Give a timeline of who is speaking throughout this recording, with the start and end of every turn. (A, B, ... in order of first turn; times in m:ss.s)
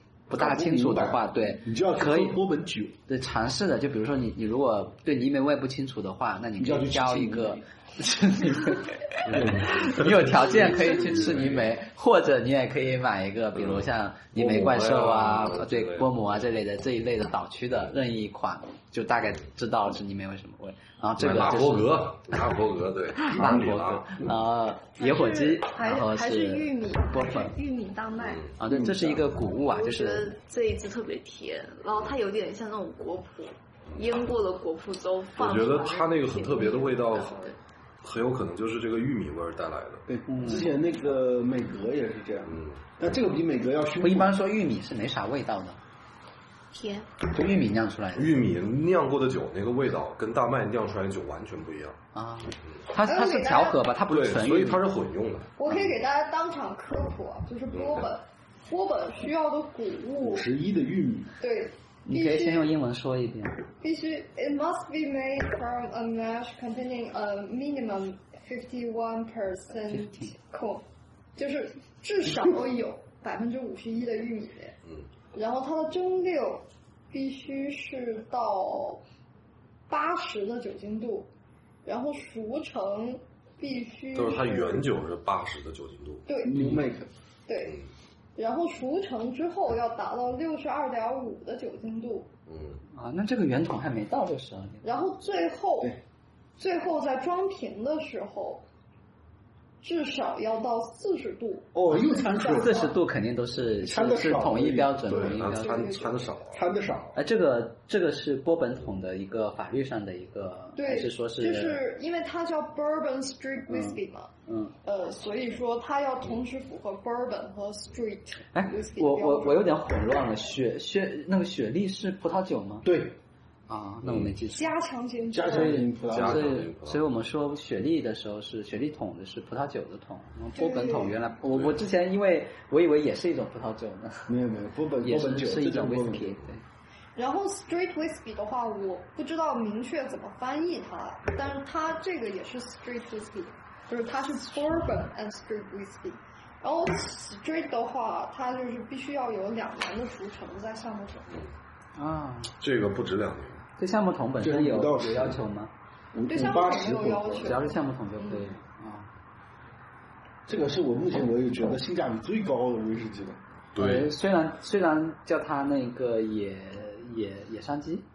0:00.3-0:02.4 A
0:00.3-0:03.0 B
0:03.1-0:22.2 A
0:06.6-0:07.6 B
0:09.3-0:11.6 C
0:09.3-0:10.1 B
0:13.6-0:16.4 C
0:21.2-0:24.3 C
0:23.2-0:27.5 A
0:25.0-0:28.4 D
0:28.2-0:28.6 C
0:28.6-0:30.3 A
0:28.6-0:29.3 B
0:29.6-0:37.6 E
0:35.4-0:40.0 C
0:40.1-0:44.4 B
0:40.3-0:40.7 A
0:42.5-0:42.8 C
0:44.0-0:45.8 A
0:46.7-0:47.1 E
0:47.3-0:48.4 A
0:48.1-0:52.0 C
0:52.2-0:54.8 A
0:53.0-0:53.9 D
0:54.1-0:55.9 C
0:55.6-1:00.5 D
0:57.7-0:58.1 C
1:00.2-1:01.3 B
1:01.4-1:02.7 D
1:02.1-1:03.6 A
1:03.8-1:10.8 D
1:09.9-1:10.3 A
1:11.4-1:14.8 D
1:15.3-1:19.0 D
1:19.9-1:21.3 D
1:21.8-1:24.9 D
1:24.1-1:26.3 C
1:26.3-1:26.7 D
1:26.4-1:27.1 B
1:27.5-1:27.8 D
1:28.4-1:32.3 D
1:32.5-1:32.8 C
1:33.0-1:34.8 A
1:34.8-1:36.0 D
1:36.6-1:38.6 D
1:39.8-1:43.0 D
1:41.7-1:42.9 B
1:42.5-1:46.0 A
1:43.8-1:45.3 B
1:45.1-1:46.7 C
1:45.6-1:46.2 D
1:46.5-1:47.2 B
1:47.2-1:51.8 A
1:50.8-1:54.3 D
1:53.7-1:54.8 A
1:54.8-1:59.7 D
1:58.5-2:02.9 A
2:02.8-2:03.2 B
2:03.7-2:04.7 A
2:04.0-2:04.4 C
2:04.5-2:05.9 D
2:05.3-2:06.6 B
2:05.5-2:14.3 A
2:06.0-2:07.1 C
2:10.6-2:11.2 D
2:11.5-2:11.8 C
2:14.3-2:16.4 B
2:15.0-2:16.6 A
2:17.2-2:31.4 D
2:32.0-2:32.5 A
2:32.6-2:33.6 C
2:33.8-2:35.7 A
2:34.4-2:35.4 B
2:36.1-2:37.6 B
2:36.3-2:38.5 D
2:37.4-2:39.1 A
2:40.5-2:43.4 B
2:43.8-2:44.1 C
2:43.8-2:48.1 A